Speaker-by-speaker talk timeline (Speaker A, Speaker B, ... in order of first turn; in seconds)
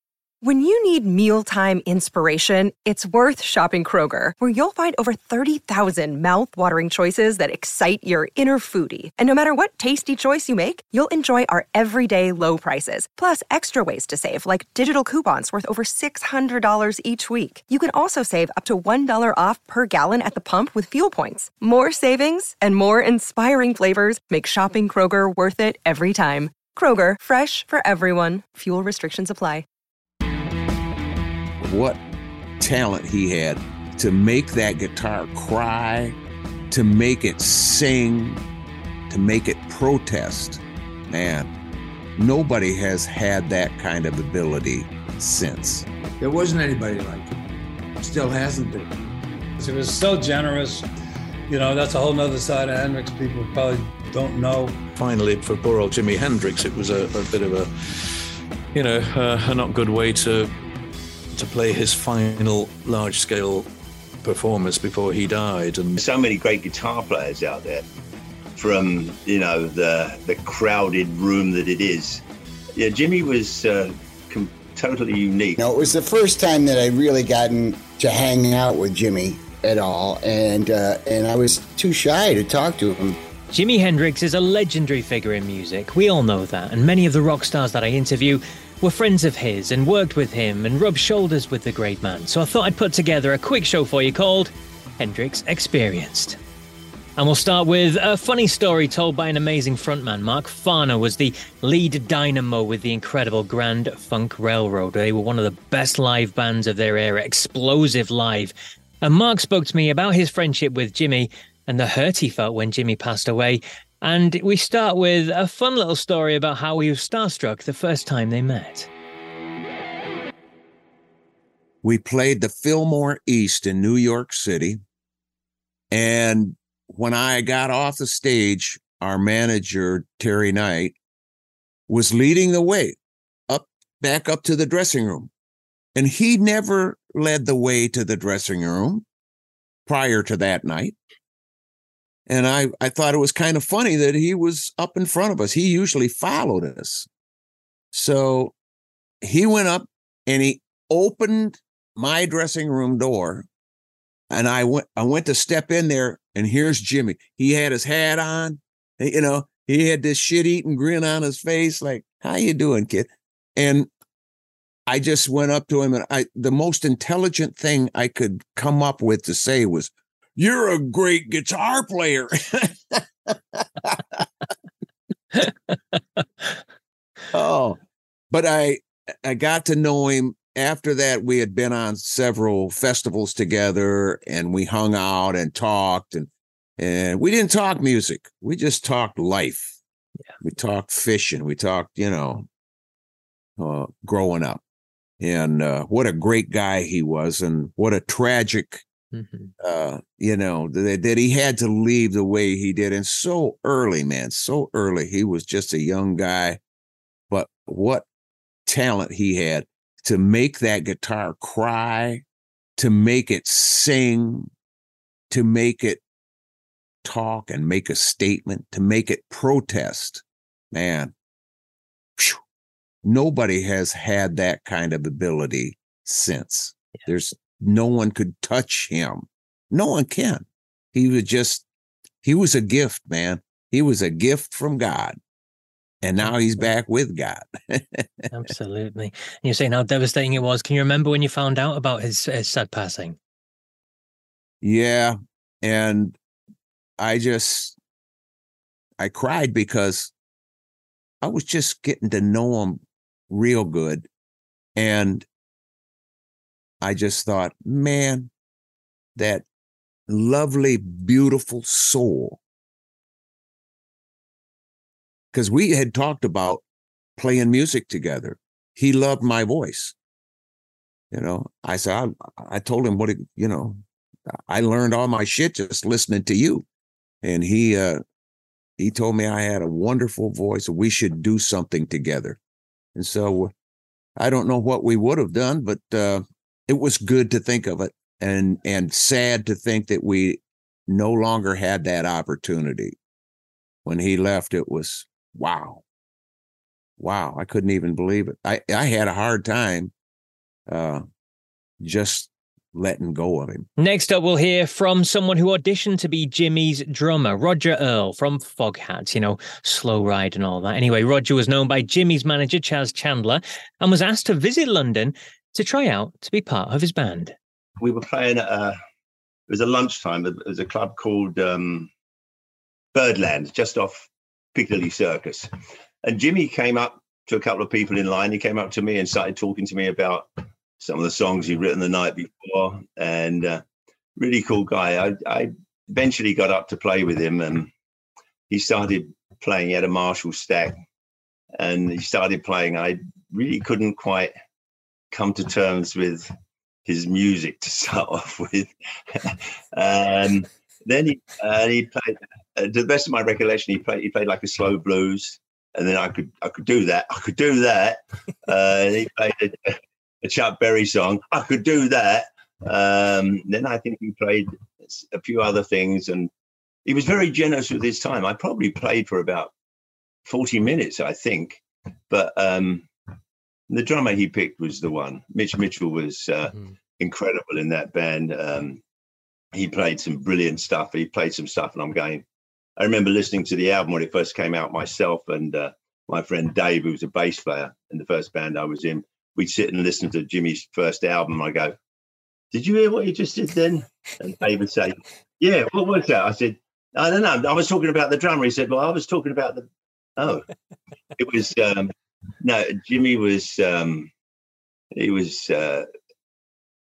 Speaker A: 0.4-29.6
Speaker B: 31.6-32.0, 32.6-36.2, 36.7-38.4, 39.1-41.5, 42.2-45.8, 121.8-124.8, 125.9-130.9, 131.9-133.0, 133.5-135.3, 135.9-139.1, 139.8-140.9, 142.3-147.1, 147.9-148.5, 149.2-153.5, 154.3-163.9, 164.9-174.2, 177.3-177.8, 178.3-189.7, 190.4-192.5, 193.6-194.6, 195.2-198.8, 199.6-206.6, 207.3-208.0, 208.7-212.2, 212.8-214.5, 215.3-216.0, 217.0-221.1, 223.0-231.6, 232.2-235.2, 236.0-238.2, 244.6-246.2, 247.0-247.8, 249.0-250.1, 251.2-254.1, 254.8-255.2, 256.8-258.3, 259.1-259.4, 260.1-262.4, 265.3-266.6, 267.2-269.9, 271.1-273.8, 274.5-276.6, 277.2-278.0, 278.8-282.4, 282.9-283.5, 284.2-292.9, 293.9-295.8, 297.0-299.9, 300.7-301.0, 301.8-303.6
Speaker C: 46.2-47.4, 48.0-49.1
Speaker D: 49.6-50.9, 51.5-54.8
Speaker E: 55.0-58.1, 58.7-60.5, 61.3-63.7, 64.2-66.0
Speaker F: 66.0-67.8, 68.6-72.2, 72.8-75.6, 317.8-318.8, 319.5-321.9, 322.9-325.5, 326.0-333.6, 334.2-337.7, 338.5-340.7, 341.6-344.3, 345.1-346.2, 346.9-359.7, 360.2-366.3, 366.9-369.5, 370.2-372.9, 373.7-378.8, 379.5-382.2, 382.8-391.7, 392.5-399.6, 400.2-400.4, 401.2-404.1, 404.9-405.9
Speaker G: 75.6-83.2
Speaker H: 83.5-96.4, 97.2-118.9, 175.4-175.7, 199.1-199.5, 238.3-243.2, 303.8-317.3